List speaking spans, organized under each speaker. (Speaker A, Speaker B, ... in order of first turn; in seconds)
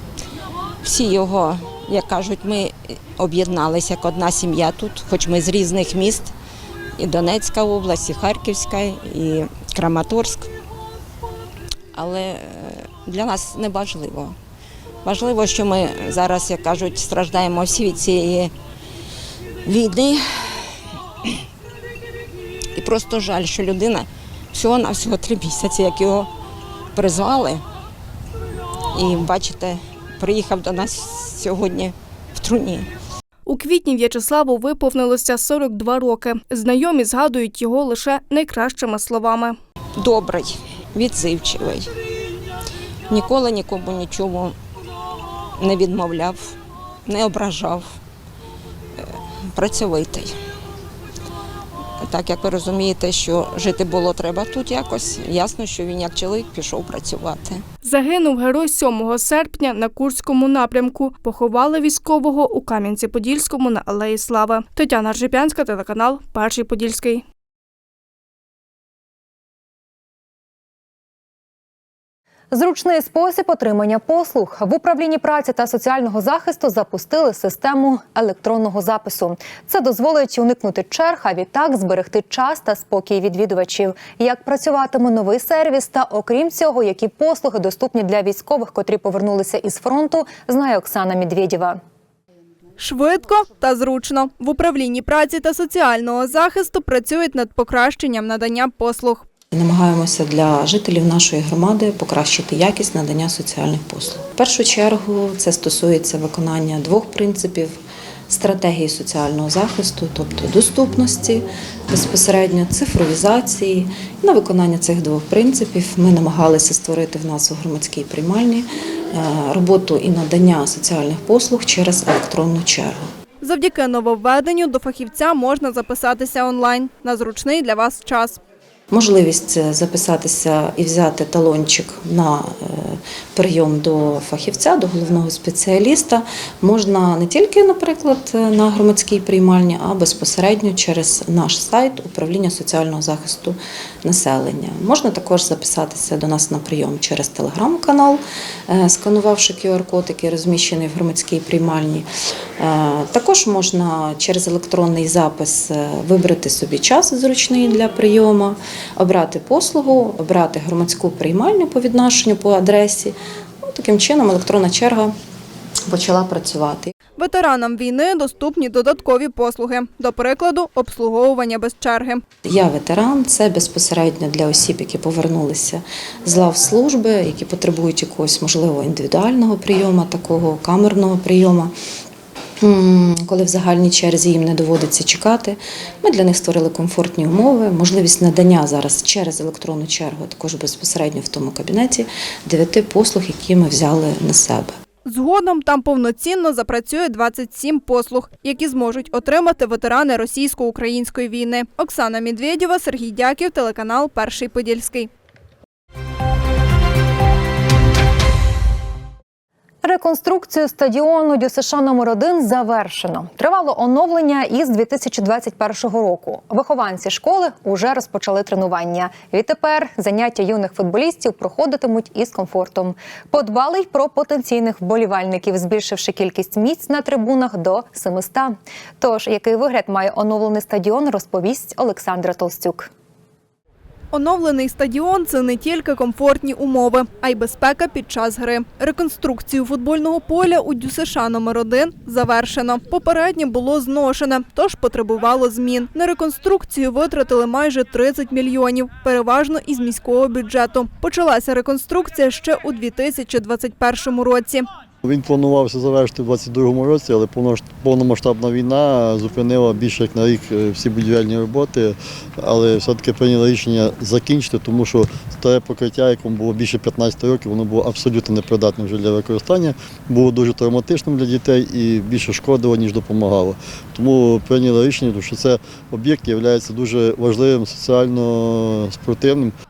Speaker A: 0.8-6.3, 7.0-10.5, 11.9-14.3, 15.0-18.5, 19.6-20.8, 22.8-26.3, 26.9-27.6, 28.9-32.9, 40.0-41.9, 43.1-44.5, 45.6-47.9, 49.0-50.3, 52.0-57.6
Speaker B: 33.5-39.6, 57.8-67.2
Speaker C: 72.5-91.8, 209.8-232.9
Speaker D: 92.8-99.2, 123.4-128.4, 167.2-172.2, 195.0-205.1, 234.1-254.7
Speaker E: 99.5-123.1, 128.9-152.1, 152.6-165.1, 165.9-166.9, 172.4-181.7, 182.6-194.7
Speaker F: 255.0-279.5